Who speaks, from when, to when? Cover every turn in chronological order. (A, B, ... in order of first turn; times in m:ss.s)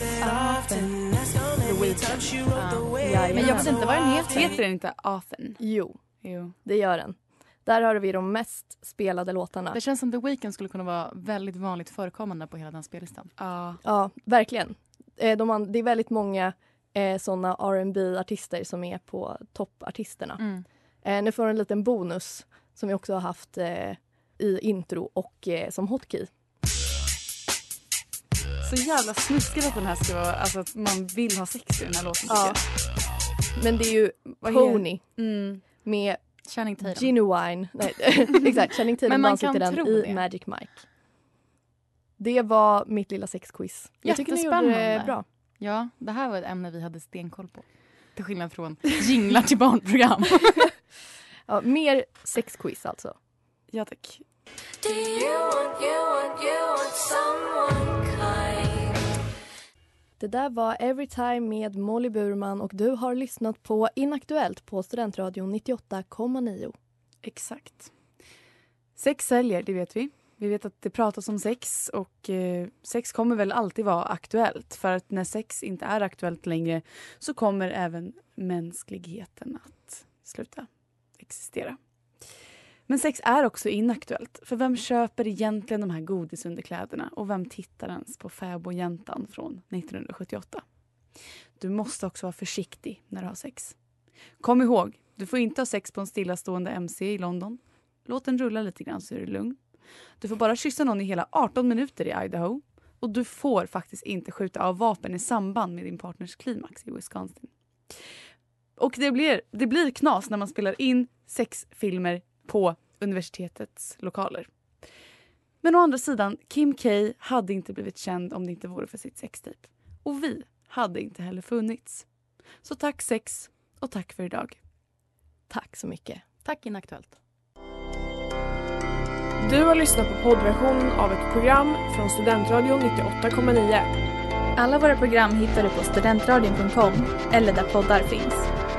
0:00.2-0:00.9 A
0:01.6-0:03.8 A
0:02.5-0:04.6 B
0:03.3-0:05.6 C
0:05.6-0:06.0 A
0:06.2-0:06.5 C
0:06.6-0:09.8 A
0:09.7-0:13.3 B
0:13.4-0:13.8 C
0:13.8-0:20.4 A
0:20.4-0:20.6 B
0:21.0-0:26.3 A
0:28.6-0:32.6 C
0:32.3-0:32.6 A
0:33.6-0:35.0 A
0:34.4-0:35.6 C
0:35.8-0:36.2 A
0:36.4-0:37.1 B
0:36.8-0:40.8 A
0:39.0-0:40.2 B
0:42.2-0:45.2 A
0:44.0-0:50.7 B
0:51.5-0:53.1 A
0:53.7-0:54.2 C
0:55.2-0:56.0 D
0:56.8-0:57.3 D
1:00.2-1:06.7 A
1:07.2-1:07.9 C
1:09.0-1:20.7 C
1:21.2-1:21.8 C
1:22.9-1:30.6 C
1:31.6-1:33.7 C
1:34.4-1:39.6 C
1:40.2-1:47.5 C
1:48.8-1:54.5 C
1:55.6-2:02.0 C
2:02.6-2:04.6 C
2:05.5-2:06.2 A
2:06.4-2:07.2 B
2:09.4-2:13.9 E
2:14.6-2:18.5 D